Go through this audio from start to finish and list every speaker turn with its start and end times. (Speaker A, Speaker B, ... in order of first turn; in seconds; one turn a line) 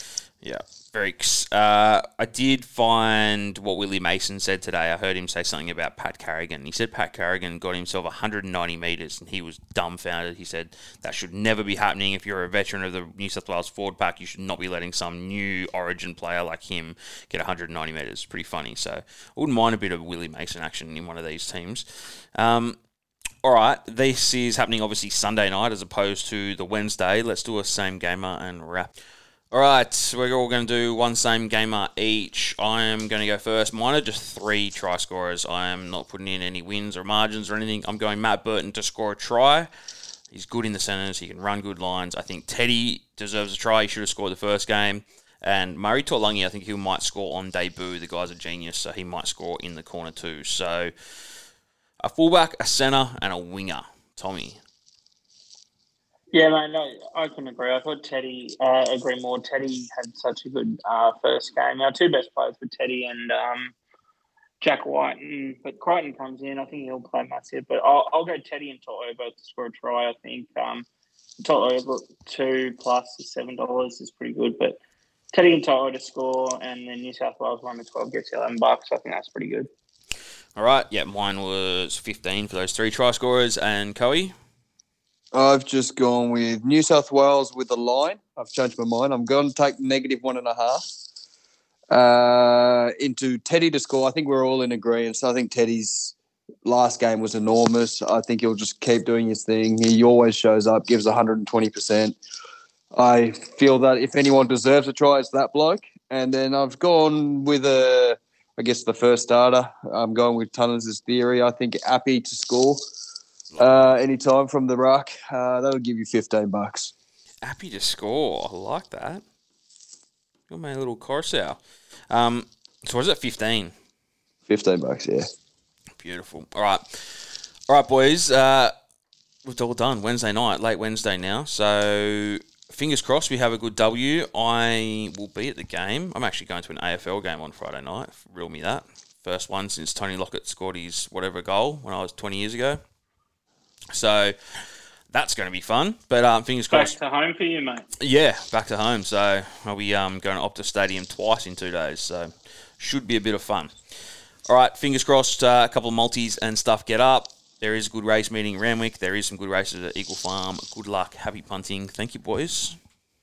Speaker A: 0.4-22.8
Speaker A: 23.4-28.9
Speaker A: 29.5-39.7
Speaker A: 40.3-50.9
Speaker A: 52.0-54.6
Speaker B: 56.3-63.7
Speaker B: 64.6-70.8
Speaker B: 71.4-74.8
Speaker B: 75.3-79.7
Speaker A: 80.5-84.3
Speaker C: 85.3-90.8
Speaker C: 91.9-102.2
Speaker C: 102.9-112.8
Speaker C: 113.6-116.9
Speaker A: 117.4-119.2
Speaker A: 120.5-123.7
Speaker C: 124.5-125.2
Speaker A: 126.0-128.7
Speaker A: 129.4-142.8
Speaker A: 143.9-146.9
Speaker B: 146.7-147.9
Speaker A: 148.0-153.7
Speaker A: 154.5-162.8